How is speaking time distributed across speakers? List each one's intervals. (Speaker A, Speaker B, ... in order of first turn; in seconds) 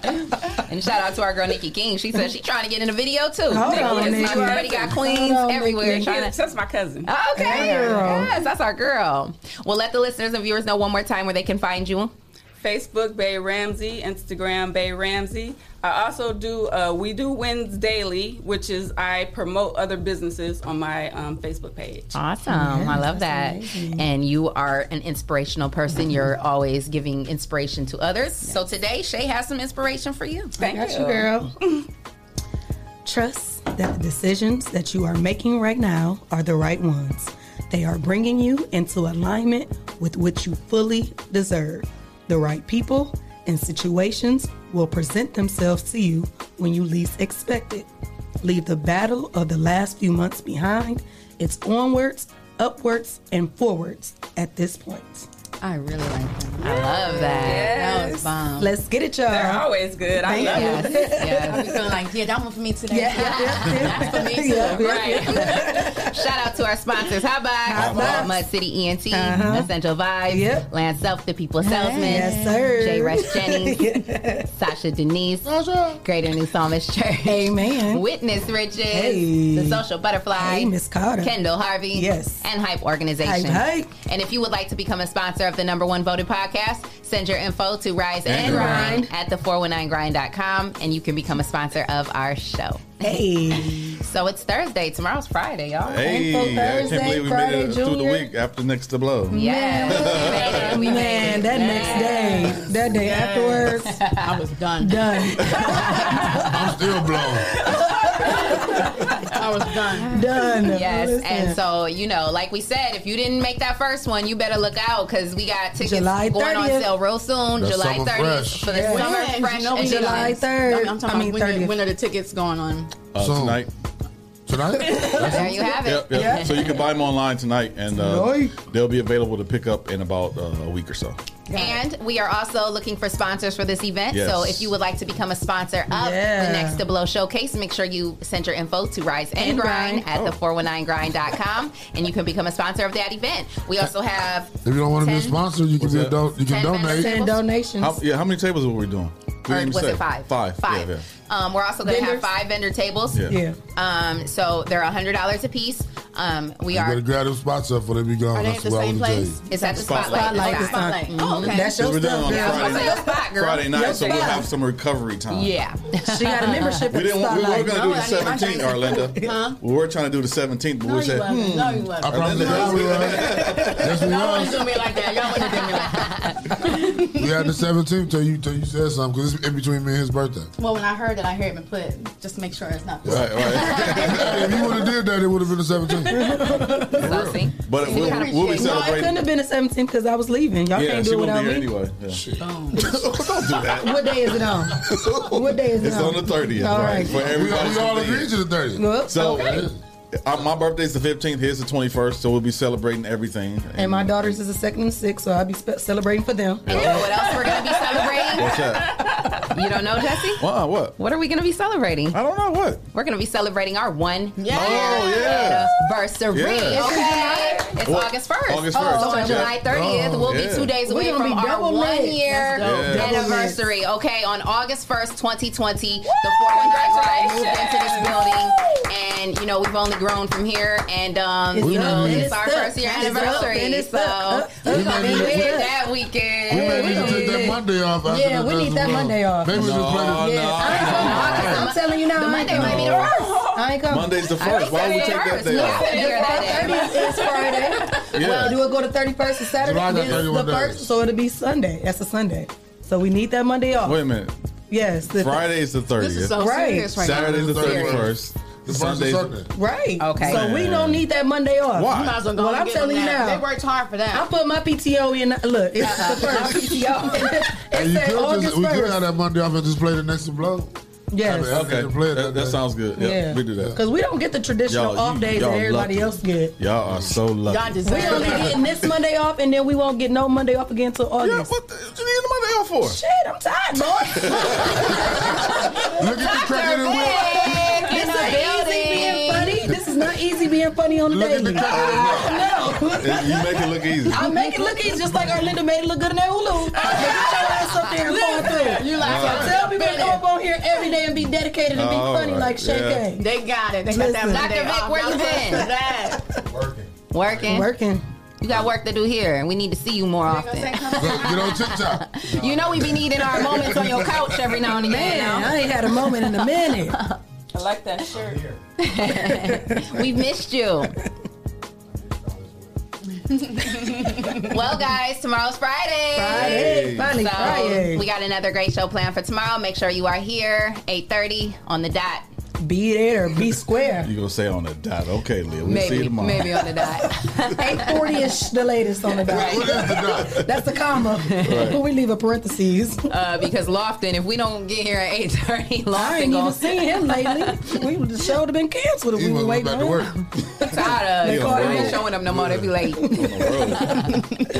Speaker A: 0.7-6.3, 7.0-12.1, 22.1-30.5, 56.6-57.8, 60.4-61.9, 63.1-64.1, 64.8-73.9, 74.5-92.9, 93.8-96.2, 99.3-102.4, 103.9-104.3, 109.9-120.4, 125.2-126.9, 131.5-145.4, 146.4-147.4, 149.5-157.0, 159.5-164.4, 165.3-166.9, 176.0-176.3, 187.0-188.7, 206.7-208.8, 209.5-210.4, 211.0-212.2, 212.9-237.3, 240.7-243.4, 244.3-247.9, 257.6-258.0, 260.0-260.5, 265.8-267.4, 286.3-289.6, 304.3-305.7, 307.1-307.7, 308.4-317.2, 318.8-320.9, 324.5-332.3, 335.6-338.3, 339.3-339.7, 343.1-347.8, 350.6-354.2
Speaker B: 3.5-6.0, 7.3-8.3, 22.5-24.0, 30.6-31.5, 33.0-47.9, 48.4-55.2, 58.6-61.6, 62.9-66.1, 67.7-68.4, 69.1-69.7, 70.3-70.7, 72.0-74.5, 77.2-78.0, 78.9-79.8, 80.3-81.3, 81.9-82.4, 83.2-83.9, 88.4-89.1, 93.0-93.9, 96.0-98.3, 99.3-104.0, 104.8-106.5, 108.3-108.8, 110.1-111.6, 115.8-116.9, 118.7-119.1, 119.8-121.7, 124.8-126.5, 127.9-128.5, 135.9-136.8, 139.3-140.1, 146.9-148.0, 151.8-152.3, 153.3-153.6, 160.0-164.4, 166.1-167.9, 168.9-169.3, 171.2-171.6, 186.1-187.1, 188.5-191.7, 193.7-197.2, 198.8-199.5, 203.8-206.7, 216.9-217.4, 218.7-219.5, 220.8-223.6, 231.5-235.7, 236.5-243.0, 243.5-244.3, 245.5-254.0, 254.7-255.4, 256.3-256.9, 259.5-263.4, 264.1-269.0, 271.1-271.6, 273.0-276.5, 277.8-281.5, 282.8-285.1, 286.5-287.1, 287.9-293.4, 294.1-303.2, 303.9-304.6, 305.1-305.6, 307.4-308.0, 314.8-317.0, 319.5-319.8, 326.1-328.0, 332.6-334.1, 337.6-343.1, 345.9-350.1, 350.6-352.0, 353.0-354.0
Speaker C: 3.6-4.9, 5.8-8.2, 12.6-22.1, 30.6-31.8, 56.6-58.4, 59.3-61.0, 64.8-65.6, 207.1-208.3, 208.8-209.4, 217.4-217.7, 226.0-228.5, 243.1-243.6, 246.0-247.2, 317.5-318.5
Speaker D: 55.6-58.7, 61.5-65.2, 71.6-72.7, 100.3-100.9, 101.4-105.9, 109.3-110.1, 118.8-122.9, 131.5-131.8, 158.3-161.4, 167.7-169.6, 170.8-177.2, 180.6-184.8, 187.8-188.8, 192.4-192.9, 214.4-215.3, 222.3-223.1, 256.0-257.6, 261.9-264.2, 277.5-278.6, 297.0-300.2, 303.1-306.2, 310.2-311.4, 323.3-324.4
Speaker E: 75.4-76.0, 106.5-107.5, 117.6-118.7, 123.2-123.6, 124.5-125.6, 144.6-147.2, 156.7-159.4, 172.0-174.7, 177.2-180.5, 183.9-187.4, 192.1-193.7, 197.2-199.8, 219.7-220.3, 231.6-232.3, 234.6-235.6, 236.5-240.5, 241.1-241.6, 249.6-250.9, 257.0-259.4, 267.7-270.7, 271.2-272.6, 286.0-287.5, 291.1-292.4, 310.9-314.1, 322.1-322.6, 339.3-340.4, 349.1-350.1
Speaker F: 88.2-89.0, 95.8-100.7, 123.1-123.7, 125.8-131.2, 134.1-134.7, 145.8-146.3, 147.8-151.0, 159.6-160.5, 161.3-165.5, 166.9-173.9, 183.1-184.6, 187.0-189.2, 190.7-194.0, 195.8-198.3, 199.1-199.7, 200.2-204.4, 206.7-207.2, 208.3-208.9, 210.4-210.9, 212.1-212.8, 214.5-215.7, 216.3-217.2, 217.8-220.8, 222.6-223.3, 239.5-241.6, 242.5-243.1, 243.9-245.9, 248.1-248.6, 253.8-254.3, 255.2-256.4, 256.9-259.3, 260.2-261.0, 261.8-262.3, 271.5-273.7, 274.7-278.6, 281.2-283.0, 284.1-284.8, 291.7-292.0, 293.0-294.4, 298.9-299.9, 301.7-303.1, 326.3-327.3, 334.0-336.6, 341.4-341.8, 351.2-354.0